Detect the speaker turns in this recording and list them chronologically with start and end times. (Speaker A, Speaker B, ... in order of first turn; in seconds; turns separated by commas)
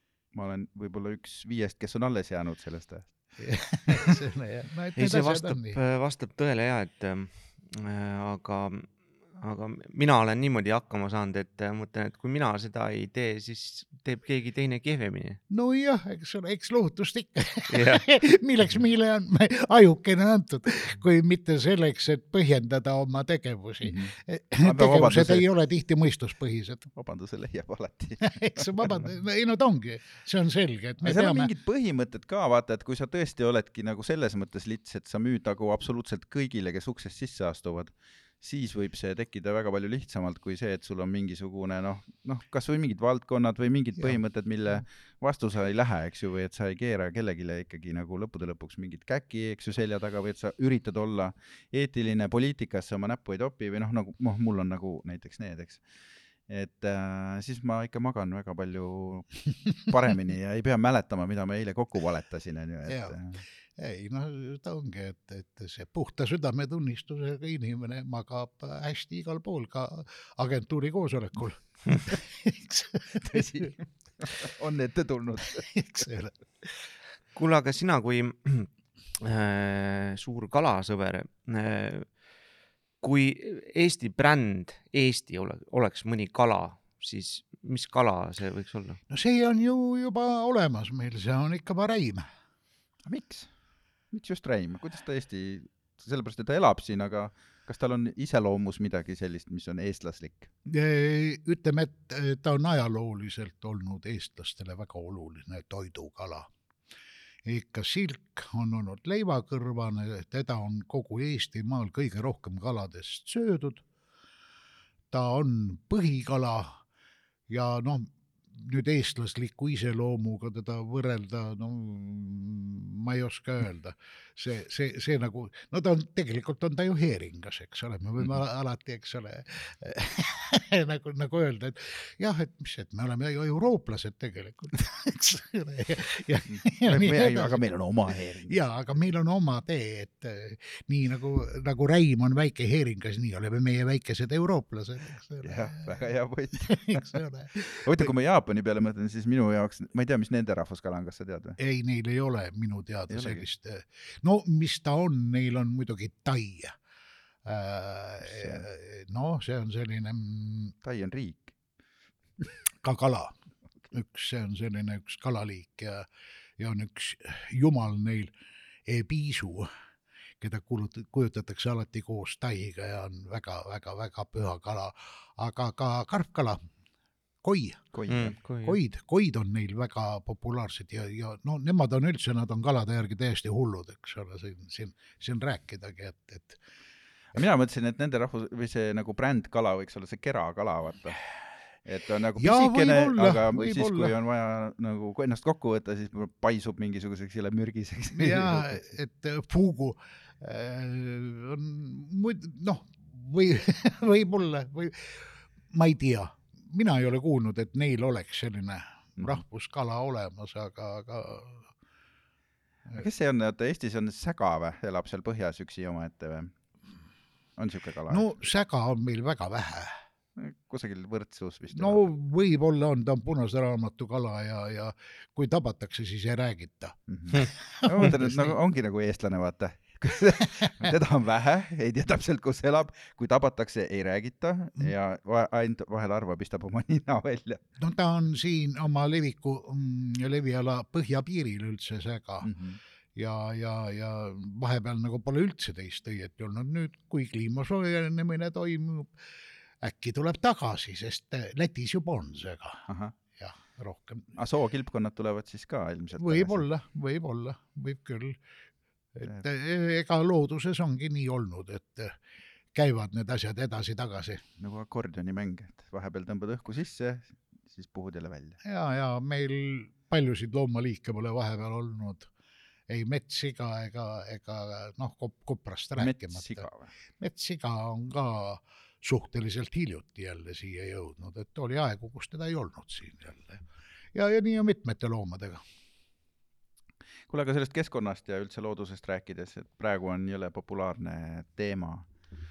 Speaker A: 0.3-3.3, Speaker B: 3.4-5.8, Speaker C: 5.0-15.4, Speaker B: 15.5-26.9, Speaker C: 17.7-18.1, Speaker A: 23.8-25.5, Speaker A: 26.9-29.1, Speaker B: 28.2-31.5, Speaker A: 31.0-55.8, Speaker A: 56.5-63.4, Speaker B: 62.8-63.2, Speaker B: 63.8-73.7, Speaker A: 73.2-75.8, Speaker B: 75.5-76.8, Speaker C: 77.3-78.7, Speaker C: 79.2-82.2, Speaker C: 83.0-89.0, Speaker B: 89.1-92.3, Speaker A: 93.0-93.5, Speaker A: 94.1-100.5, Speaker B: 100.7-106.5, Speaker B: 107.4-113.8, Speaker B: 115.1-116.8, Speaker B: 117.5-137.6, Speaker A: 136.5-138.7, Speaker B: 138.5-146.0, Speaker A: 145.4-147.2, Speaker B: 146.6-148.1, Speaker A: 147.7-151.6, Speaker B: 151.6-156.8, Speaker A: 153.1-153.4, Speaker B: 157.4-160.7, Speaker A: 158.2-158.6, Speaker A: 160.8-161.5, Speaker B: 162.8-163.3, Speaker B: 163.9-166.1, Speaker B: 166.6-168.3, Speaker B: 168.8-169.7, Speaker B: 170.4-176.6, Speaker B: 177.4-177.9, Speaker A: 177.9-178.3, Speaker C: 178.1-178.8, Speaker B: 178.6-186.6, Speaker A: 187.3-198.8, Speaker B: 192.4-194.1, Speaker B: 198.1-211.7, Speaker A: 212.9-216.5, Speaker A: 217.6-218.2, Speaker B: 218.1-220.0, Speaker A: 220.4-222.1, Speaker B: 221.7-228.6, Speaker A: 227.1-237.6, Speaker B: 230.4-230.9, Speaker B: 237.8-242.5, Speaker A: 242.4-242.8, Speaker B: 243.2-249.3, Speaker B: 249.8-254.3, Speaker A: 252.9-253.1, Speaker A: 254.3-256.6, Speaker B: 256.1-258.4, Speaker B: 259.1-262.2, Speaker B: 262.7-264.4, Speaker A: 264.6-268.6, Speaker B: 268.6-272.3, Speaker B: 272.9-276.6, Speaker A: 276.0-276.9, Speaker B: 277.2-285.6, Speaker A: 287.3-292.1